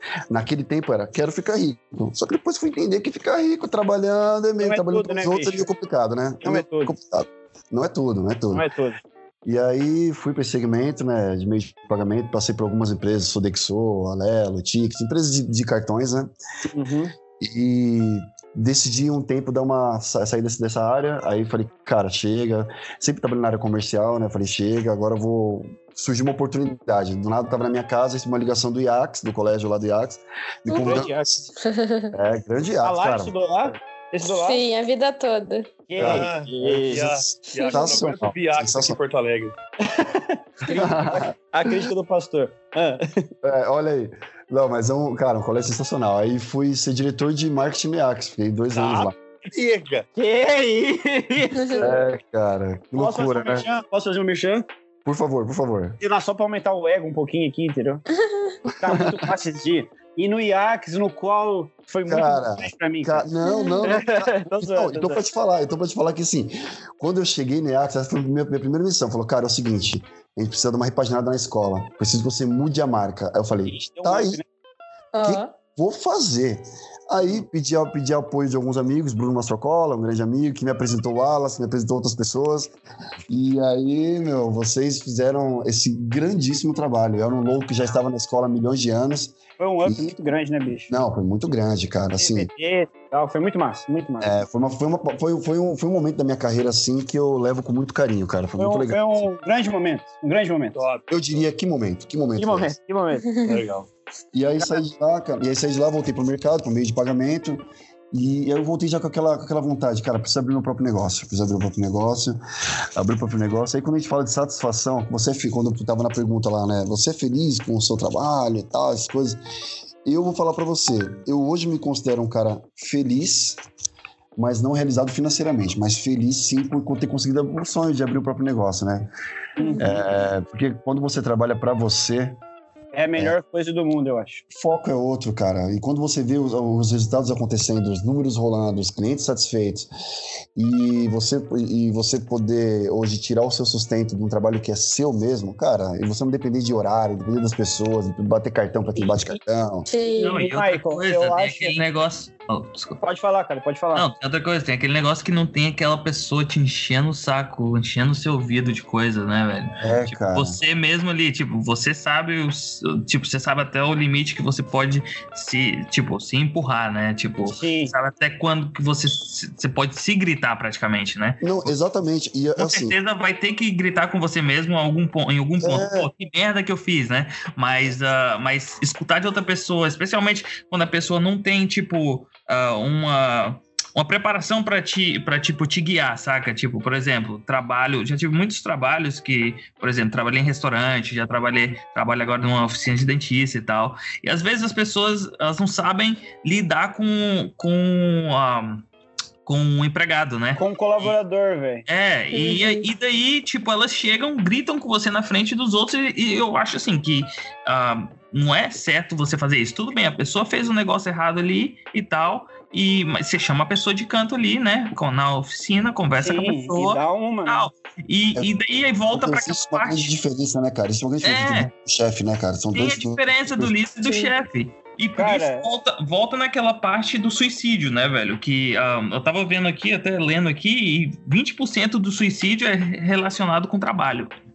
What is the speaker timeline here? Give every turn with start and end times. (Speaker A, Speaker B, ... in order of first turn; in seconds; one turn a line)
Speaker A: 0.3-8.6
Speaker B: 4.6-5.7
Speaker B: 6.4-6.9
Speaker B: 8.5-9.0
Speaker A: 9.4-16.3
Speaker B: 16.6-17.1
Speaker A: 17.4-31.3
Speaker B: 30.7-31.5
Speaker C: 31.6-32.1
Speaker A: 32.1-33.8
Speaker B: 32.8-34.6
Speaker C: 34.3-35.8
Speaker B: 35.9-37.9
Speaker A: 36.0-36.3
Speaker D: 36.0-39.5
Speaker A: 37.7-39.0
Speaker B: 39.8-43.3
Speaker A: 40.7-41.8
Speaker A: 43.4-49.1
Speaker D: 48.7-50.1
Speaker B: 50.1-52.0
Speaker C: 51.6-51.8
Speaker A: 51.8-53.6
Speaker B: 53.0-54.7
Speaker A: 55.0-56.0
Speaker B: 56.0-58.0
Speaker A: 58.7-59.0
Speaker B: 58.8-63.3
Speaker A: 62.1-74.4
Speaker C: 63.4-63.8
Speaker B: 63.9-65.2
Speaker B: 73.7-74.4
Speaker C: 75.1-75.5
Speaker A: 75.2-82.7
Speaker A: 83.3-90.1
Speaker B: 89.6-90.9
Speaker A: 90.9-92.5
Speaker B: 92.2-94.3
Speaker A: 94.2-99.2
Speaker B: 98.6-100.8
Speaker D: 100.7-101.4
Speaker A: 101.1-102.8
Speaker B: 102.4-103.3
Speaker D: 103.4-103.9
Speaker A: 104.3-112.4
Speaker A: 113.0-119.4
Speaker A: 120.0-123.6
Speaker A: 124.3-129.1
Speaker B: 129.6-130.0
Speaker C: 129.6-130.0
Speaker A: 129.8-132.4
Speaker B: 132.9-134.4
Speaker A: 134.5-139.9
Speaker A: 140.5-149.9
Speaker B: 149.0-149.4
Speaker C: 149.9-150.4
Speaker E: 150.2-153.0
Speaker B: 150.3-151.8
Speaker B: 153.0-154.1
Speaker E: 153.9-171.7
Speaker A: 159.8-160.6
Speaker B: 167.4-167.9
Speaker A: 171.4-172.9
Speaker E: 172.6-198.8
Speaker A: 175.6-176.1
Speaker E: 199.4-201.1
Speaker B: 200.6-201.8
Speaker E: 201.9-220.1
Speaker C: 202.3-202.9
Speaker B: 216.2-217.7
Speaker A: 219.1-223.7
Speaker E: 221.2-221.7
Speaker E: 222.7-234.3
Speaker C: 224.0-224.3
Speaker B: 225.2-225.7